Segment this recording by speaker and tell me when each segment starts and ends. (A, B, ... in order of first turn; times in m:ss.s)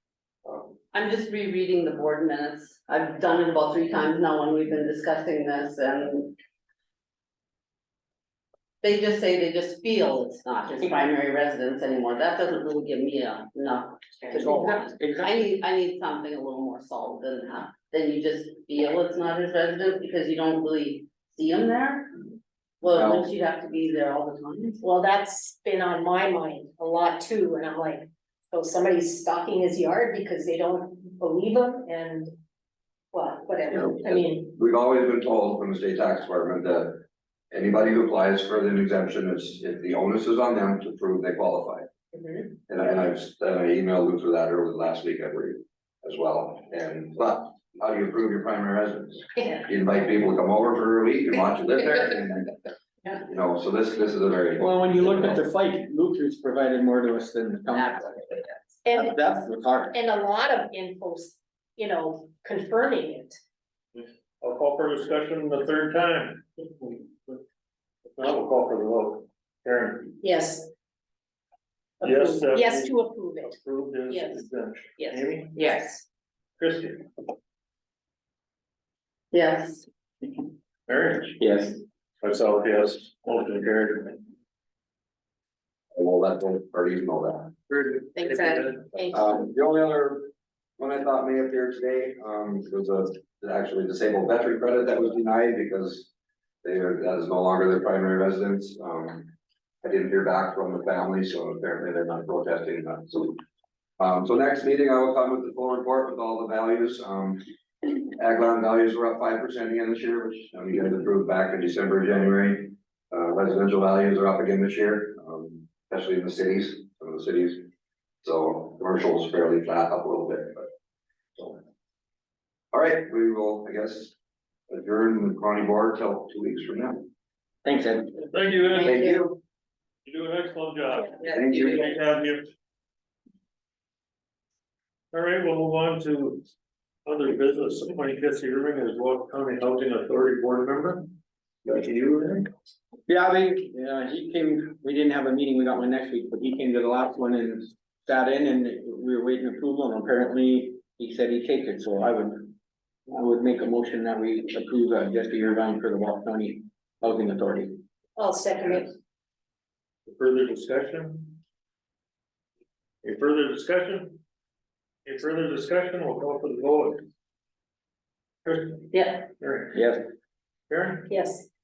0:00.4-0:00.8 A
0:00.9-0:06.3 B
0:08.8-0:22.2 B
0:14.3-0:15.5 C
0:22.8-0:24.8 B
0:22.9-0:23.3 A
0:24.8-0:32.3 D
0:33.1-0:34.5 D
0:33.7-0:41.9 A
0:42.7-0:52.5 A
0:53.1-0:54.7 A
0:54.6-0:59.9 C
0:58.8-0:59.2 D
0:59.9-1:03.4 D
1:04.0-1:07.4 E
1:08.2-1:10.1 E
1:10.2-1:10.7 D
1:12.0-1:15.6 E
1:12.0-1:13.6 D
1:14.1-1:14.4 D
1:15.0-1:15.3 D
1:16.6-1:17.1 E
1:19.3-1:19.8 B
1:20.9-1:21.4 E
1:21.4-1:21.8 C
1:22.2-1:24.2 E
1:26.0-1:36.1 A
1:28.2-1:28.7 E
1:36.6-1:39.3 A
1:39.8-1:43.4 A
1:44.0-1:47.4 A
1:48.2-1:57.7 A
1:58.2-2:00.7 A
2:01.4-2:01.6 A
2:02.7-2:04.1 A
2:04.7-2:07.1 A
2:07.6-2:08.2 C
2:08.3-2:09.0 E
2:08.8-2:09.4 A
2:10.1-2:12.4 E
2:11.3-2:11.9 A
2:15.1-2:16.4 E
2:17.0-2:22.5 E
2:23.1-2:32.5 C
2:33.1-2:37.8 C
2:38.2-2:38.9 D
2:40.1-2:41.4 E
2:43.0-2:44.2 E
2:45.0-2:47.0 E
2:48.5-2:48.9 E
2:48.9-2:49.2 B
2:49.4-2:49.8 E
2:49.7-2:50.0 C
2:50.7-2:51.1 E
2:51.1-2:51.5 D